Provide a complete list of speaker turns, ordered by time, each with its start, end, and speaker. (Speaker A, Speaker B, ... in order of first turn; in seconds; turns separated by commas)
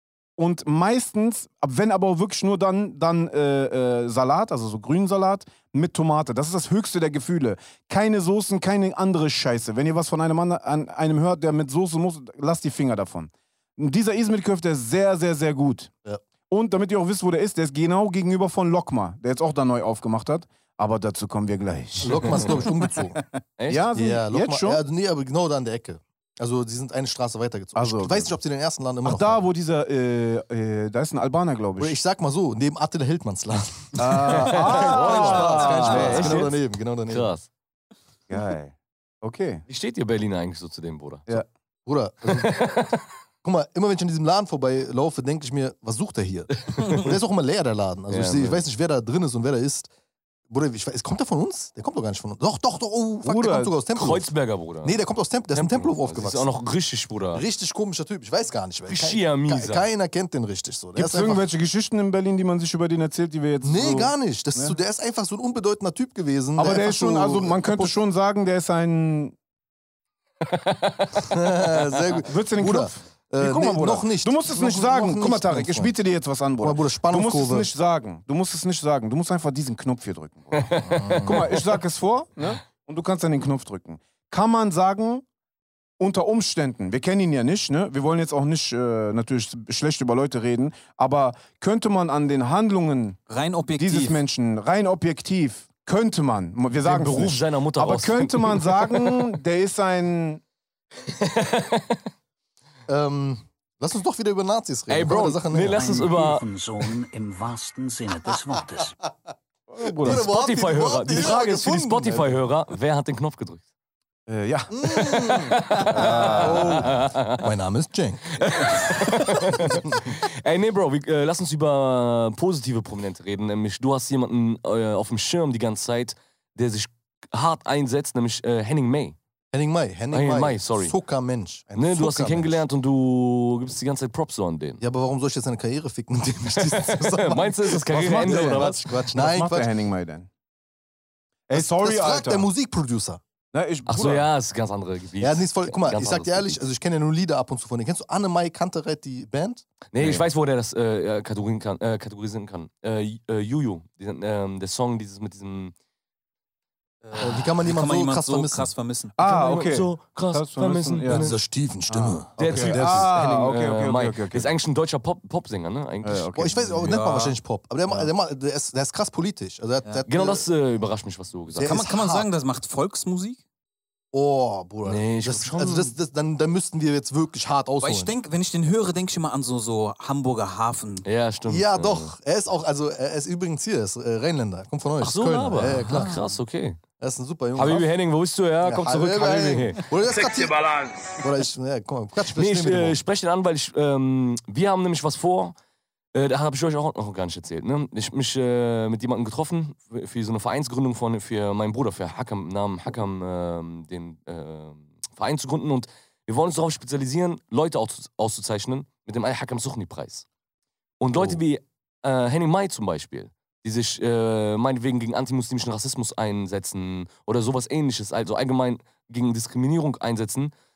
Speaker A: 0.4-15.9, Speaker A: 16.5-22.6, Speaker B: 22.0-23.2, Speaker C: 22.6-23.2, Speaker A: 23.7-24.8, Speaker B: 23.9-29.4, Speaker A: 27.7-28.3, Speaker A: 29.0-32.0, Speaker B: 31.8-37.3, Speaker A: 34.0-36.5, Speaker D: 34.7-36.5, Speaker D: 37.1-37.5, Speaker A: 38.3-39.6, Speaker D: 39.7-41.3, Speaker B: 41.9-42.6, Speaker D: 42.3-43.0, Speaker B: 43.4-49.9, Speaker D: 48.1-48.6, Speaker B: 50.5-56.5, Speaker A: 53.2-53.7, Speaker D: 54.0-54.9, Speaker D: 55.5-57.4, Speaker B: 57.3-61.4, Speaker D: 58.9-59.8, Speaker A: 61.0-64.8, Speaker B: 63.6-67.9, Speaker A: 66.5-69.3, Speaker D: 70.4-71.2, Speaker B: 71.3-75.9, Speaker A: 72.3-85.2, Speaker B: 76.6-77.7, Speaker B: 80.8-81.5, Speaker A: 86.0-93.2, Speaker C: 93.3-94.2, Speaker A: 93.8-100.4, Speaker D: 96.8-98.9, Speaker D: 101.0-102.0, Speaker B: 102.9-105.8, Speaker D: 104.9-106.4, Speaker E: 105.6-109.0, Speaker A: 109.7-110.3, Speaker B: 110.0-112.4, Speaker D: 110.0-113.6, Speaker A: 114.3-114.7, Speaker B: 114.7-118.2, Speaker D: 114.9-117.4, Speaker A: 115.8-116.9, Speaker D: 118.4-129.2, Speaker B: 119.6-120.1, Speaker B: 129.5-132.6, Speaker D: 130.1-130.9, Speaker D: 131.8-134.8, Speaker B: 134.8-139.7, Speaker D: 136.6-138.9, Speaker A: 137.9-140.3, Speaker A: 141.5-142.5, Speaker B: 141.5-143.2, Speaker A: 143.5-144.3, Speaker D: 143.9-146.6, Speaker B: 145.2-149.6, Speaker D: 149.9-155.7, Speaker A: 150.0-150.2, Speaker D: 157.0-157.3, Speaker C: 157.1-159.2, Speaker B: 157.1-158.7, Speaker A: 159.2-161.3, Speaker D: 159.2-161.4, Speaker B: 161.1-163.2, Speaker A: 161.9-164.5, Speaker D: 162.3-166.8, Speaker A: 166.0-166.8, Speaker B: 166.3-170.4, Speaker C: 166.8-167.4, Speaker D: 170.1-171.7, Speaker B: 171.5-172.3, Speaker C: 171.6-173.4, Speaker B: 174.1-178.1, Speaker D: 174.8-175.9, Speaker C: 177.8-181.1, Speaker D: 181.0-182.1, Speaker B: 181.5-186.2, Speaker D: 185.0-186.8, Speaker C: 185.7-186.2, Speaker B: 187.0-187.9, Speaker D: 187.5-189.8, Speaker B: 188.6-190.6, Speaker B: 191.2-193.0, Speaker D: 192.3-195.5, Speaker D: 196.1-210.2, Speaker D: 211.0-220.5, Speaker B: 211.1-211.4